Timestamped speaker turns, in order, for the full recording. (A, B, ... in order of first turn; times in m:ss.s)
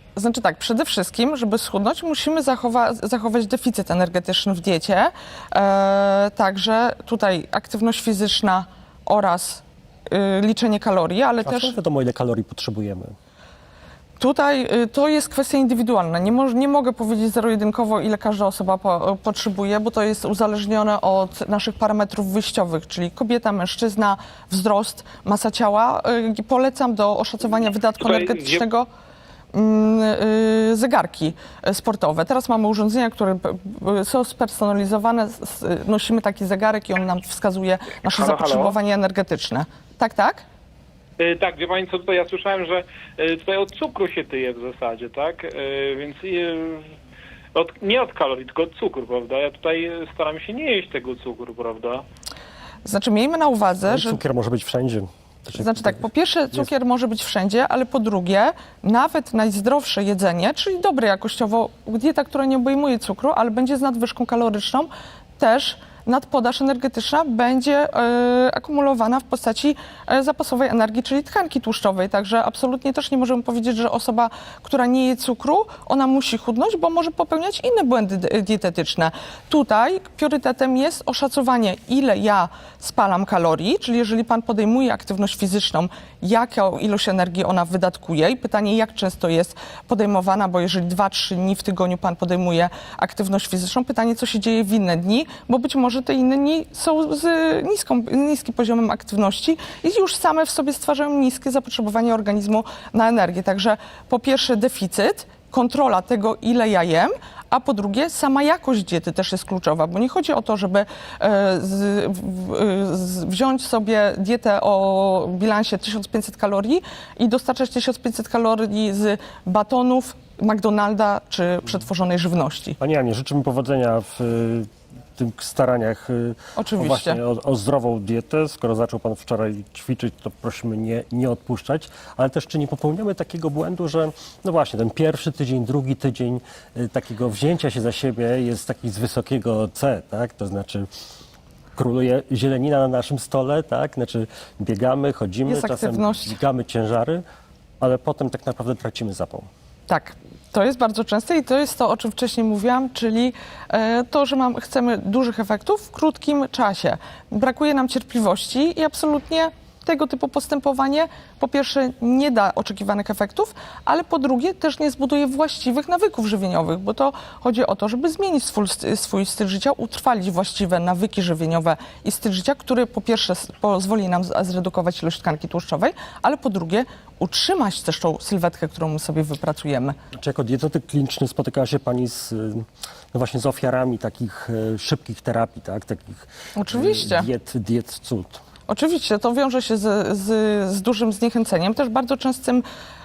0:00.2-0:11.8 A
0:11.4-0:13.2 B
0:14.2-0:28.9 A
0:28.0-0:28.6 C
0:29.5-0:40.4 A
0:38.0-0:38.8 C
0:41.2-0:46.9 C
0:47.6-0:52.0 C
0:52.8-0:54.2 A
0:53.9-0:56.7 B
0:55.6-2:02.8 A
2:02.8-2:20.9 B
2:06.6-2:07.2 A
2:21.8-2:27.2 B
2:25.5-2:26.4 A
2:27.8-2:29.5 B
2:29.9-3:00.0 A
3:00.1-3:08.4 B
3:06.6-3:07.3 A
3:08.7-3:12.6 A